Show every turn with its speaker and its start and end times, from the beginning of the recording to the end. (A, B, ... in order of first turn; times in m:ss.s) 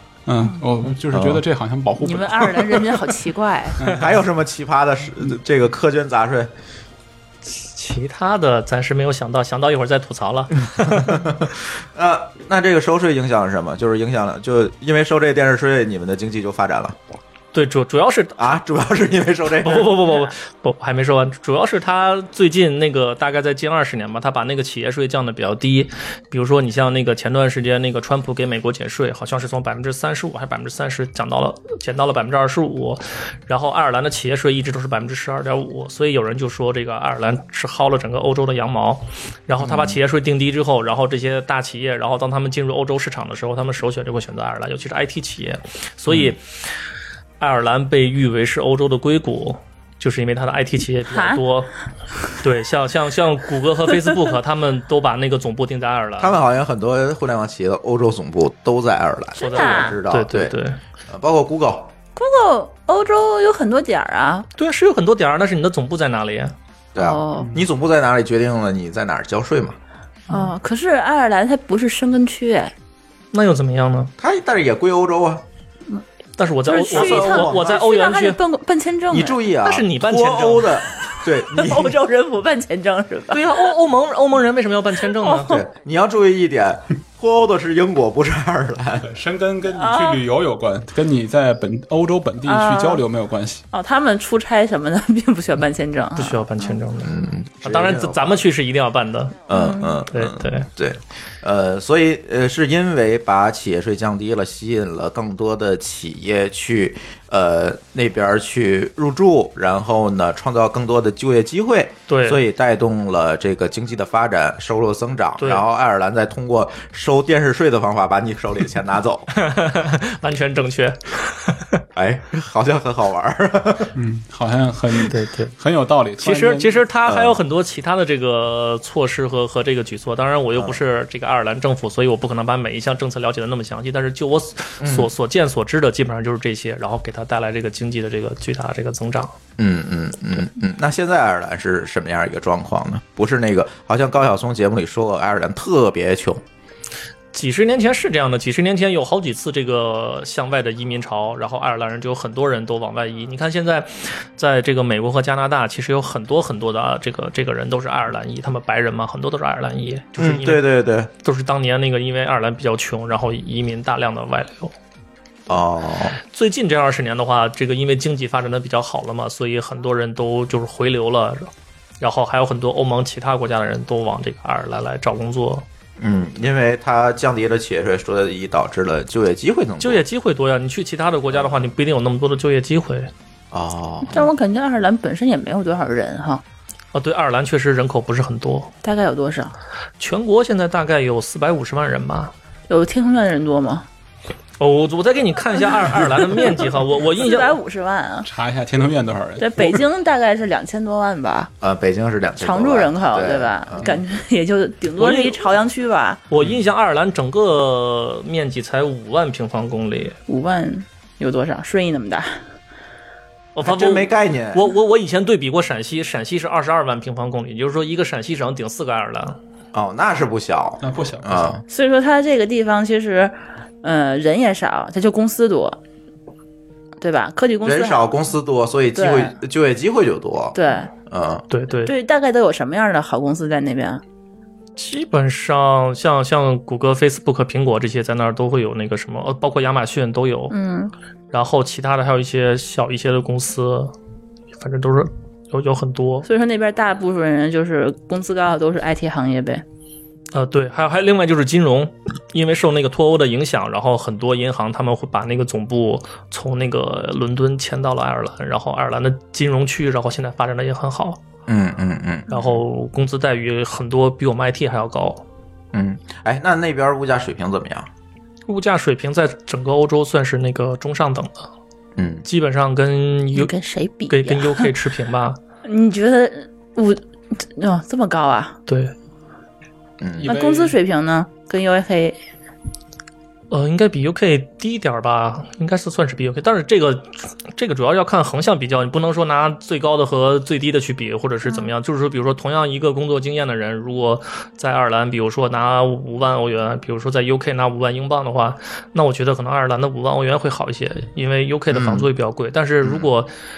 0:00.3-0:03.0 A
0:01.1-0:01.4 B
0:02.0-0:03.8 C
0:03.8-0:04.1 A
0:04.0-0:06.5 B
0:07.6-0:11.2 D
0:10.9-0:17.0 B
0:17.5-0:18.6 D
0:18.4-0:20.0 B
0:19.6-0:46.4 D
0:39.6-0:40.0 B
0:46.1-0:46.4 B
0:47.4-0:51.7 D
0:51.1-0:51.4 C
0:52.4-0:56.3 D
0:56.2-1:00.5 B
0:59.4-1:00.0 C
0:59.4-1:00.8 D
1:01.1-1:01.9 B
1:02.2-1:04.4 C
1:04.6-1:06.5 D
1:06.9-1:09.8 B
1:07.0-1:07.5 C
1:07.4-1:07.6 A
1:10.3-1:12.7 C
1:13.3-1:14.1 D
1:14.2-1:15.4 B
1:16.4-1:18.4 D
1:16.6-1:19.4 C
1:16.9-1:17.8 B
1:19.1-1:22.0 B
1:19.6-1:20.7 D
1:21.5-1:23.7 C
1:23.3-1:25.6 D
1:25.4-1:29.1 B
1:29.0-1:33.6 A
1:29.7-1:30.2 C
1:32.4-1:33.0 C
1:33.7-1:36.6 C
1:36.2-1:39.4 D
1:37.0-1:38.3 B
1:39.5-1:59.3 B
1:39.5-1:39.9 C
1:40.1-1:40.7 D
1:52.1-1:52.4 D
1:55.4-1:55.6 D
1:59.4-2:01.8 D
2:01.9-2:03.9 B
2:03.9-2:06.8 A
2:05.0-2:05.5 D
2:06.2-2:19.3 D
2:07.1-2:07.4 B
2:10.6-2:10.8 B
2:14.8-2:15.1 B
2:19.6-2:26.4 B
2:27.3-2:40.6 D
2:40.2-2:41.1 B
2:41.2-2:44.7 D
2:45.5-2:46.2 B
2:46.3-2:55.6 D
2:56.0-3:00.0 B
2:59.8-3:03.1 D
3:03.5-3:04.3 B
3:04.1-3:06.4 C
3:06.9-3:08.7 D
3:08.8-3:09.5 C
3:10.0-3:12.3 D
3:12.7-3:13.9 C
3:14.6-3:17.5 D
3:17.1-3:18.3 C
3:18.2-3:19.8 A
3:19.4-3:21.5 C
3:21.6-3:24.0 B
3:22.4-3:26.2 C
3:25.0-3:25.5 D
3:26.3-3:30.2 D
3:30.3-3:32.4 C
3:33.5-3:39.4 D
3:33.6-3:34.7 B
3:39.7-3:41.6 B
3:40.8-3:41.6 A
3:41.7-3:45.8 C
3:47.0-3:48.1 C
3:47.6-3:51.4 B
3:48.9-3:49.3 C
3:50.5-3:50.9 C
3:51.5-3:51.9 D
3:51.8-3:54.0 C
3:54.8-4:00.6 D
4:00.5-4:00.9 C
4:01.3-4:03.9 D
4:04.6-4:06.3 D
4:06.2-4:09.6 C
4:10.3-4:21.2 D
4:21.5-4:22.6 B
4:22.3-4:25.2 D
4:25.7-4:27.9 B
4:28.5-4:31.5 D
4:32.0-4:32.2 B
4:32.2-4:33.5 D
4:33.3-4:34.7 C
4:34.1-4:35.4 D
4:35.6-4:38.6 C
4:38.7-4:38.9 D
4:40.0-4:40.3 B
4:40.2-4:40.8 A
4:40.2-4:42.2 C
4:43.5-5:03.3 D
4:51.4-4:51.7 C
5:01.7-5:02.1 B
5:02.8-5:03.1 B